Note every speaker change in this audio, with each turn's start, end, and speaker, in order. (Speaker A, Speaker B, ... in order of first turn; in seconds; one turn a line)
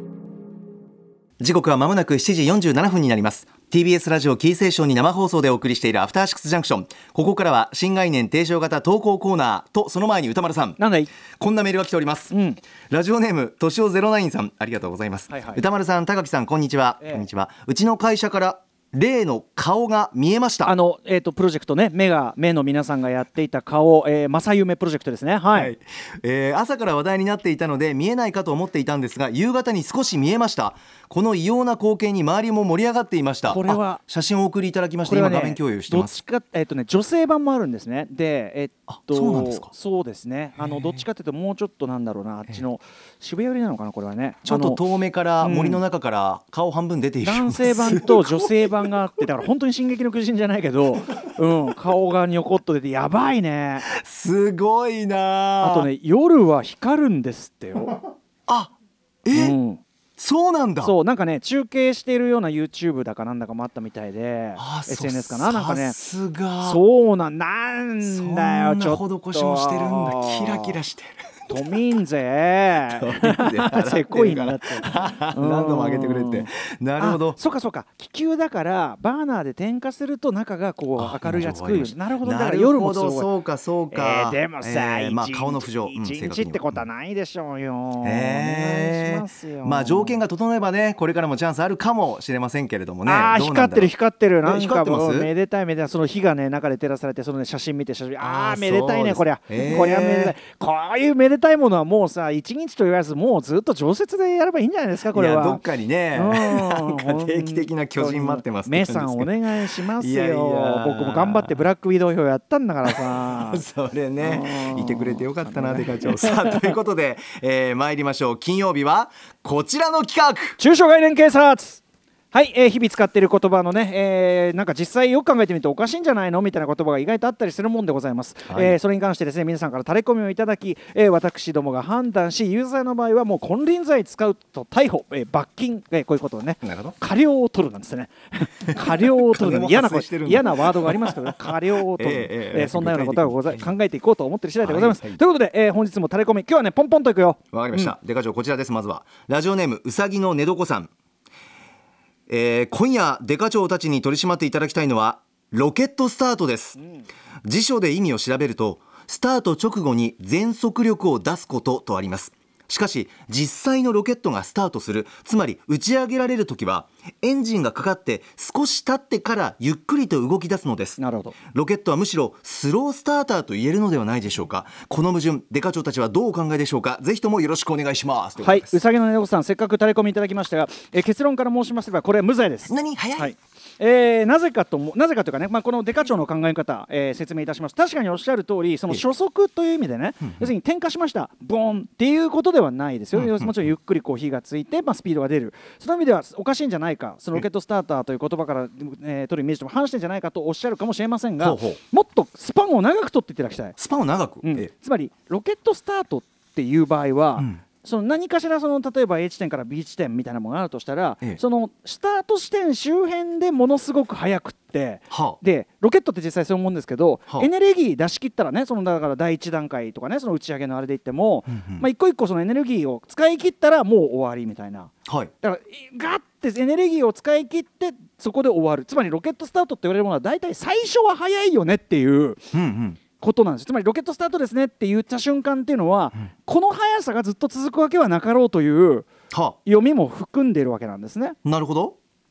Speaker A: 1.4-10.8
Speaker B: 10.8-11.1
Speaker A: 11.4-12.3
Speaker B: 12.3-12.6
Speaker A: 12.9-20.7
Speaker B: 15.3-15.6
Speaker B: 17.0-17.2
Speaker B: 20.6-25.7
Speaker A: 25.5-36.2
Speaker B: 33.5-34.0
Speaker B: 35.0-44.8
Speaker A: 38.9-39.7
Speaker A: 40.6-41.0
Speaker A: 44.5-49.1
Speaker B: 45.4-45.8
Speaker B: 47.2-53.9
Speaker A: 53.8-55.9
Speaker B: 55.6-58.0
Speaker A: 58.5-58.7
Speaker A: 59.2-59.6
Speaker B: 59.3-59.8
Speaker A: 60.2-61.0
Speaker B: 60.8-66.0
Speaker A: 64.6-66.8
Speaker B: 66.6-70.8
Speaker A: 68.0-71.2
Speaker B: 71.5-83.3
Speaker A: 72.9-77.4
Speaker A: 81.0-86.8
Speaker B: 83.9-90.2
Speaker A: 88.0-93.9
Speaker B: 93.0-113.7
Speaker A: 94.4-95.3
Speaker A: 98.2-100.4
Speaker A: 105.1-111.7
Speaker A: 112.8-120.6
Speaker B: 114.2-116.8
Speaker B: 120.6-147.9
Speaker A: 128.5-128.8
Speaker A: 136.6-136.9
Speaker A: 138.7-143.7
Speaker A: 144.6-145.2
Speaker A: 147.5-150.9
Speaker A: 152.3-156.8
Speaker A: 157.4-171.0
Speaker B: 171.0-171.3
Speaker A: 171.5-178.8
Speaker B: 178.4-203.8
Speaker A: 182.7-183.3
Speaker A: 193.1-193.7
Speaker A: 201.4-201.8
Speaker A: 203.8-204.7
Speaker B: 204.4-232.5
Speaker A: 215.1-215.4
Speaker A: 221.5-221.9
Speaker A: 225.1-225.3
Speaker A: 232.5-233.0
Speaker B: 233.2-239.1
Speaker A: 239.3-239.6
Speaker B: 239.7-241.4
Speaker A: 241.4-242.0